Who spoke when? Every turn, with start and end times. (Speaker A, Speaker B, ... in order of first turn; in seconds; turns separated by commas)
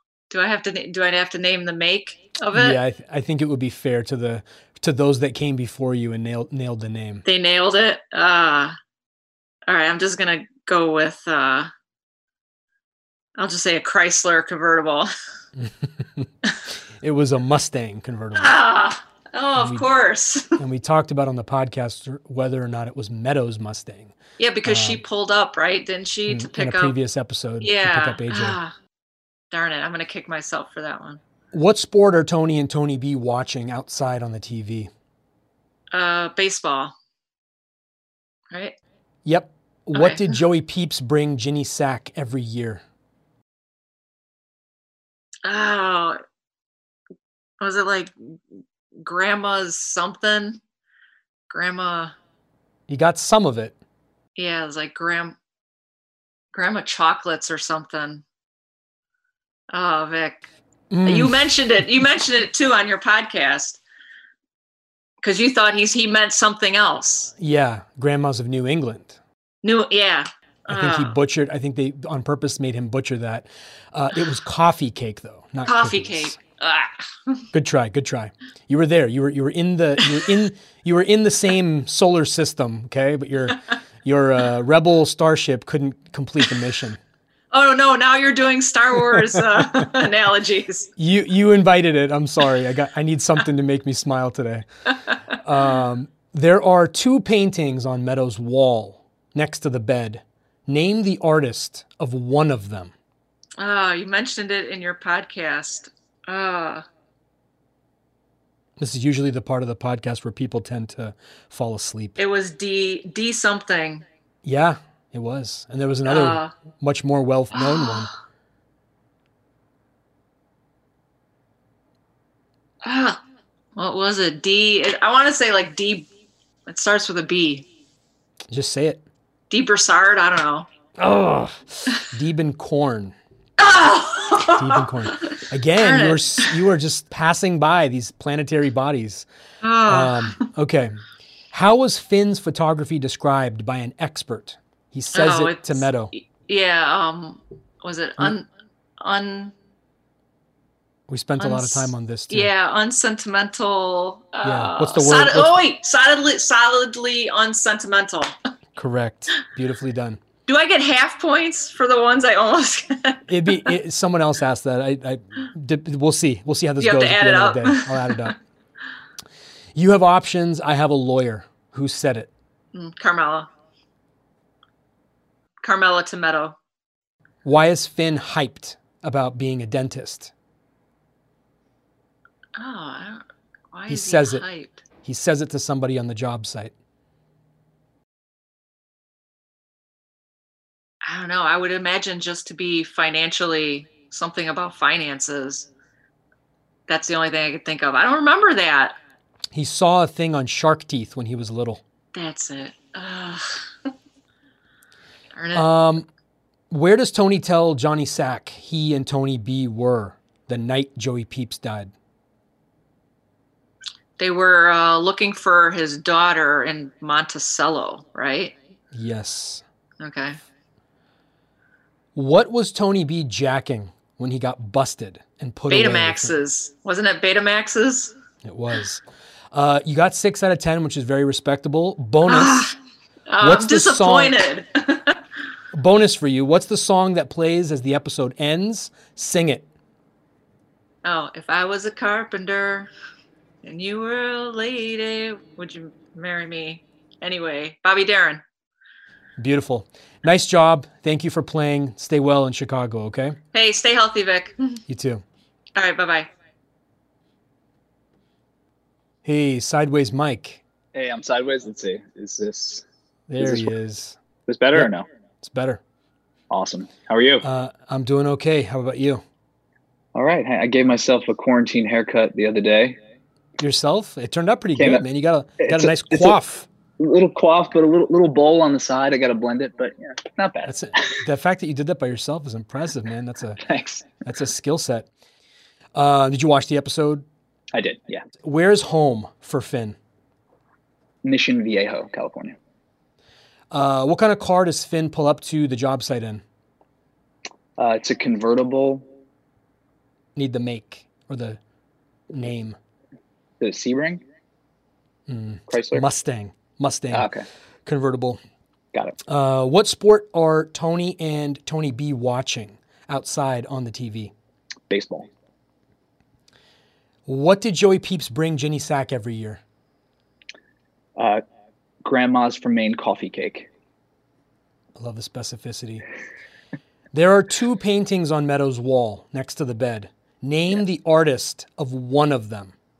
Speaker A: 0.3-2.8, Speaker B: 2.5-7.2, Speaker A: 7.2-8.8, Speaker A: 9.7-11.7, Speaker A: 13.4-15.1, Speaker B: 15.6-16.3, Speaker B: 17.0-18.6, Speaker A: 18.3-20.6, Speaker B: 19.6-19.8, Speaker B: 20.6-24.1, Speaker A: 24.4-26.9, Speaker B: 24.6-25.0, Speaker B: 26.3-28.6, Speaker A: 27.6-28.7, Speaker A: 29.5-31.2, Speaker B: 31.5-34.9, Speaker A: 35.9-36.9, Speaker A: 38.5-38.8, Speaker B: 39.2-42.8, Speaker A: 39.9-40.4, Speaker A: 45.4-46.2, Speaker A: 47.6-48.1, Speaker A: 49.0-50.6, Speaker A: 51.5-52.1, Speaker B: 52.9-53.7, Speaker A: 54.4-55.4, Speaker A: 56.5-58.2, Speaker A: 59.7-60.5, Speaker B: 60.9-61.5, Speaker A: 61.0-63.8, Speaker A: 65.2-67.3, Speaker B: 67.4-69.2, Speaker A: 69.6-71.1, Speaker B: 70.7-76.3, Speaker A: 75.7-77.4, Speaker B: 77.5-87.0, Speaker A: 87.5-90.9, Speaker B: 89.1-89.6, Speaker B: 91.0-94.7, Speaker B: 95.4-102.9, Speaker A: 103.6-106.8, Speaker B: 108.8-112.2, Speaker A: 112.2-114.0, Speaker B: 114.4-118.1, Speaker A: 116.0-116.5, Speaker A: 117.5-118.1, Speaker A: 122.8-123.2, Speaker A: 123.8-126.1, Speaker A: 126.7-127.7, Speaker B: 128.5-129.0, Speaker A: 129.5-130.7, Speaker B: 131.0-133.1, Speaker A: 133.6-136.6, Speaker B: 134.5-139.2, Speaker A: 139.6-140.4, Speaker B: 139.8-141.0, Speaker B: 141.5-146.1, Speaker A: 145.1-148.4, Speaker A: 149.0-149.5, Speaker B: 151.1-152.5, Speaker A: 151.4-158.3, Speaker B: 154.4-155.6, Speaker B: 158.8-160.2, Speaker A: 160.5-163.7, Speaker B: 163.3-168.3, Speaker A: 166.8-168.3, Speaker B: 169.7-172.3, Speaker A: 172.7-173.5, Speaker A: 175.6-176.6, Speaker B: 177.4-180.3, Speaker A: 182.6-184.8, Speaker B: 183.9-184.4, Speaker B: 185.0-186.7, Speaker A: 191.0-195.7, Speaker A: 196.9-198.9, Speaker B: 199.5-201.8, Speaker A: 202.1-203.6, Speaker A: 205.3-205.7, Speaker B: 205.5-206.1, Speaker B: 206.7-211.9, Speaker A: 214.2-218.5, Speaker B: 218.9-219.6, Speaker A: 220.0-220.4, Speaker B: 222.1-226.3, Speaker A: 225.7-228.1, Speaker B: 228.4-232.6, Speaker A: 232.3-232.7, Speaker A: 233.3-235.2, Speaker B: 233.4-234.3, Speaker B: 235.7-239.7, Speaker A: 241.0-242.9, Speaker A: 243.6-248.4, Speaker B: 249.4-253.4, Speaker A: 253.5-254.8, Speaker B: 254.9-255.2, Speaker A: 255.8-256.3, Speaker B: 259.2-260.6, Speaker C: 260.9-262.8, Speaker B: 263.3-264.2, Speaker C: 263.4-263.7, Speaker C: 264.5-265.1, Speaker B: 264.7-265.8, Speaker C: 266.5-267.4, Speaker B: 267.4-269.2, Speaker C: 270.1-273.0, Speaker B: 273.6-276.6, Speaker C: 274.8-275.0, Speaker C: 275.6-276.4, Speaker C: 277.0-280.7, Speaker B: 280.6-283.6, Speaker C: 283.6-284.1, Speaker B: 284.2-285.1, Speaker B: 285.9-287.2, Speaker C: 287.7-288.2, Speaker B: 288.4-289.9, Speaker C: 291.2-292.6, Speaker B: 293.7-296.4, Speaker C: 297.8-299.1, Speaker B: 300.4-301.6, Speaker B: 302.3-302.8, Speaker C: 303.6-304.2, Speaker B: 305.3-307.3, Speaker C: 305.7-306.0, Speaker C: 307.1-307.4, Speaker B: 307.9-308.4, Speaker B: 309.3-314.3, Speaker C: 314.9-315.3, Speaker B: 317.2-319.6, Speaker C: 321.2-321.4, Speaker C: 322.0-323.7, Speaker B: 325.0-326.0, Speaker B: 327.1-332.7